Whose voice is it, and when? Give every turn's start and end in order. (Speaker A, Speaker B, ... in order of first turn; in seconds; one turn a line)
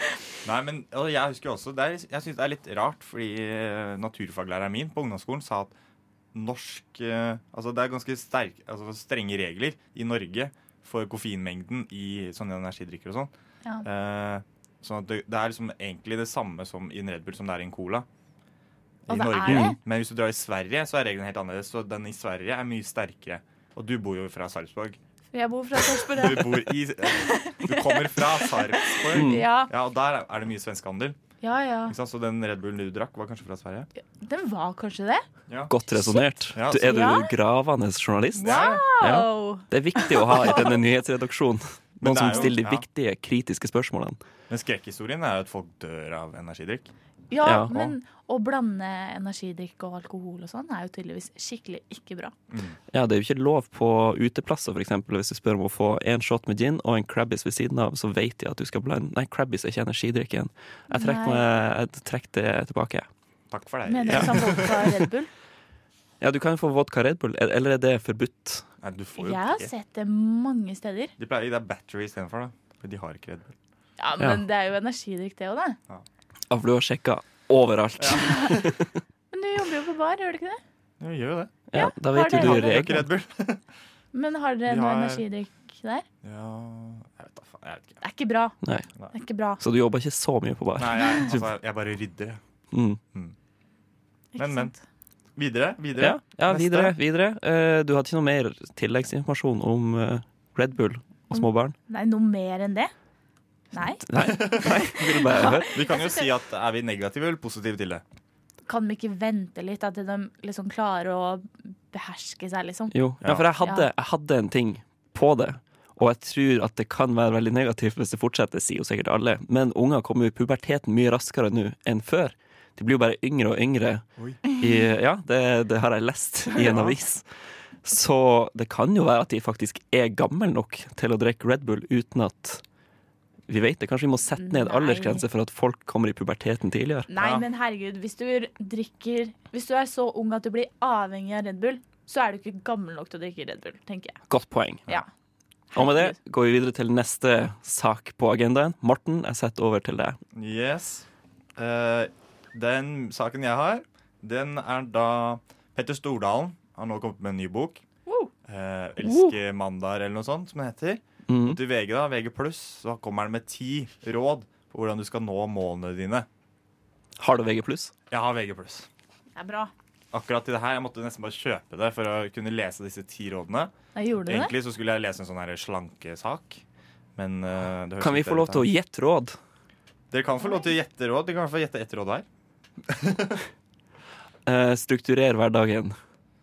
Speaker A: 0.4-5.8
Speaker A: 6.3-13.3
Speaker A: 13.8-18.1
Speaker A: 19.1-25.0
Speaker B: 19.1-19.8
Speaker C: 19.5-19.8
Speaker B: 25.3-29.7
Speaker A: 26.1-31.2
Speaker C: 29.1-29.4
Speaker B: 31.4-31.9
Speaker A: 31.9-33.9
Speaker B: 34.2-35.2
Speaker A: 35.5-35.8
Speaker C: 35.7-44.2
Speaker B: 35.9-37.3
Speaker A: 36.5-37.0
Speaker A: 38.4-38.9
Speaker B: 38.4-40.8
Speaker A: 42.0-42.9
Speaker A: 44.5-46.9
Speaker B: 47.3-52.3
Speaker C: 47.4-47.7
Speaker A: 52.5-52.8
Speaker C: 52.9-63.1
Speaker B: 60.9-61.5
Speaker A: 63.5-64.8
Speaker B: 63.9-65.3
Speaker C: 64.1-64.9
Speaker C: 66.2-68.7
Speaker A: 68.8-69.7
Speaker B: 69.2-71.1
Speaker A: 71.2-73.5
Speaker B: 74.0-75.8
Speaker C: 76.5-78.9
Speaker A: 78.0-78.2
Speaker B: 78.1-78.6
Speaker B: 79.3-80.6
Speaker A: 81.0-81.6
Speaker C: 81.7-83.1
Speaker B: 81.7-82.9
Speaker A: 82.3-83.6
Speaker B: 84.1-86.0
Speaker A: 84.7-85.2
Speaker A: 86.2-88.0
Speaker B: 88.0-88.5
Speaker B: 89.1-89.6
Speaker C: 89.6-91.4
Speaker A: 90.8-92.4
Speaker C: 92.7-93.0
Speaker B: 94.3-94.8
Speaker A: 94.4-94.7
Speaker A: 95.4-97.0
Speaker C: 96.0-101.8
Speaker B: 101.3-102.9
Speaker B: 103.7-106.2
Speaker C: 104.0-105.8
Speaker A: 104.2-108.0
Speaker B: 108.7-113.0
Speaker C: 112.9-127.2
Speaker A: 113.2-113.5
Speaker B: 113.6-113.9
Speaker A: 126.6-127.0
Speaker C: 127.8-132.6
Speaker C: 133.5-137.1
Speaker B: 134.4-135.2
Speaker B: 137.1-144.2
Speaker A: 137.2-137.4
Speaker C: 144.3-144.9
Speaker B: 145.7-146.2
Speaker C: 145.8-150.2
Speaker A: 150.3-151.1
Speaker A: 151.6-157.8
Speaker A: 158.4-166.3
Speaker C: 159.0-159.3
Speaker C: 161.3-161.6
Speaker C: 167.2-167.9
Speaker A: 168.1-168.9
Speaker B: 169.4-169.7
Speaker A: 170.1-173.7
Speaker B: 173.9-174.6
Speaker A: 174.3-176.6
Speaker A: 177.2-178.7
Speaker C: 178.0-179.4
Speaker A: 180.1-182.3
Speaker B: 180.4-180.7
Speaker A: 182.9-183.4
Speaker C: 184.4-186.0